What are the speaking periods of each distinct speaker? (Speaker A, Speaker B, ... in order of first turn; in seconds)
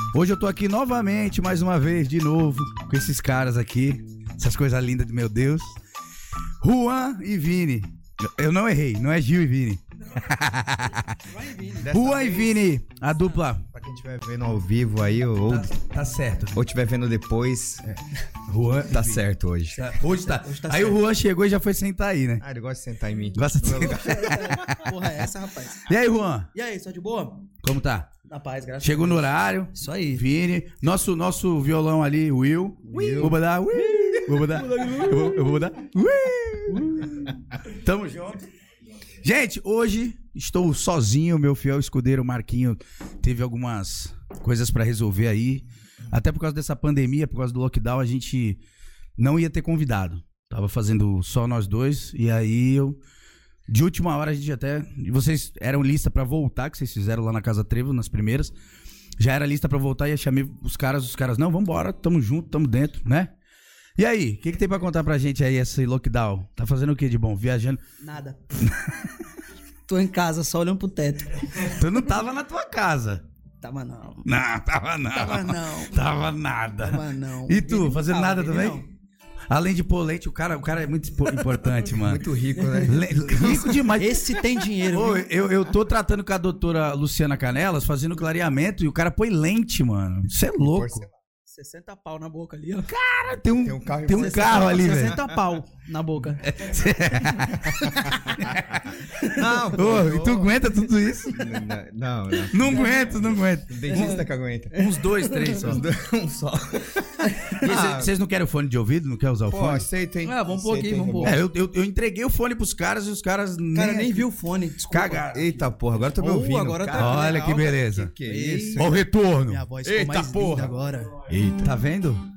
Speaker A: 0.1-5.8, 6.6-11.2, 11.9-13.6, 15.5-16.6, 18.5-19.2, 19.8-22.4, 23.4-24.9, 25.9-26.5, 27.6-28.1, 28.8-38.4, 39.2-48.6, 49.2-53.0, 53.7-58.5, 59.2-63.3, 64.0-67.8, 68.6-69.1, 71.6-73.2, 74.2-78.8, 79.5-82.2, 82.9-84.3, 84.9-91.0, 92.9-95.2, 96.4-99.0, 99.7-101.3, 102.5-104.2, 104.7-105.8, 107.6-109.9, 111.2-114.3, 114.9-115.5, 116.9-118.1, 118.8-119.7, 121.6-122.2
Speaker B: 11.2-12.0, 19.7-21.0, 23.8-25.9, 26.5-27.5, 28.3-30.2, 32.9-35.5, 36.7-37.3, 68.0-68.4, 69.9-71.7, 73.6-74.3, 75.1-75.9, 76.8-78.9, 82.6-82.9, 83.9-85.3, 91.5-92.9, 94.1-96.5, 97.8-98.3, 104.9-105.6, 107.2-107.6, 110.2-111.4, 113.8-121.2
Speaker C: 11.8-12.6, 13.7-15.7, 16.5-17.8, 18.9-19.8, 22.4-24.6, 32.9-33.3, 81.9-83.9, 90.6-91.1, 93.5-95.2, 99.3-100.6, 101.3-104.9, 105.5-108.1, 109.5-111.4, 115.3-119.0, 119.8-121.8